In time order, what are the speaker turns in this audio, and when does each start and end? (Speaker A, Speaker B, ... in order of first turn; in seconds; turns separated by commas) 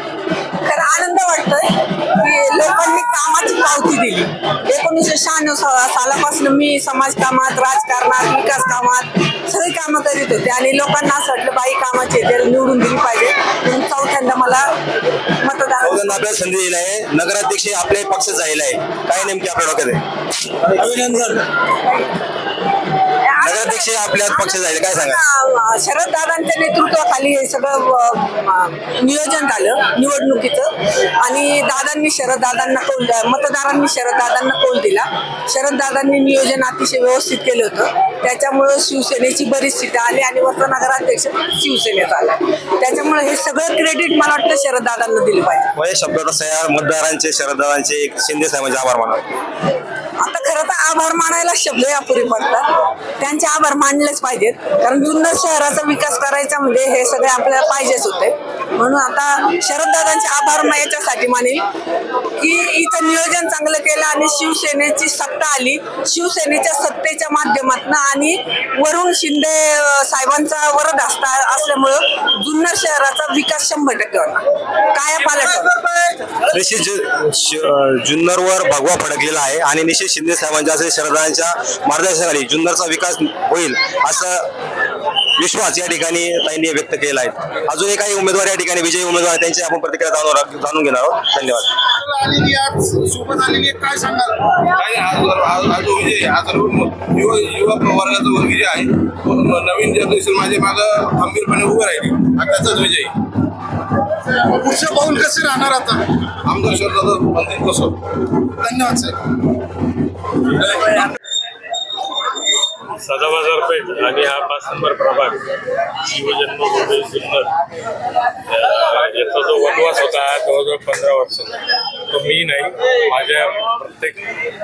Speaker A: 0.6-14.7, Speaker A: 15.2-16.2, Speaker B: 15.8-21.5, Speaker A: 21.8-22.2, Speaker A: 23.2-45.7, Speaker B: 23.4-25.2, Speaker B: 45.7-49.2, Speaker A: 50.2-61.6, Speaker A: 62.3-76.1, Speaker B: 76.3-84.5, Speaker B: 85.3-91.8, Speaker C: 92.0-94.6, Speaker D: 94.7-103.1, Speaker C: 102.4-102.8, Speaker C: 104.2-106.3, Speaker D: 106.4-108.0, Speaker C: 108.4-109.2, Speaker E: 110.6-111.0, Speaker E: 112.9-117.6, Speaker E: 118.5-124.3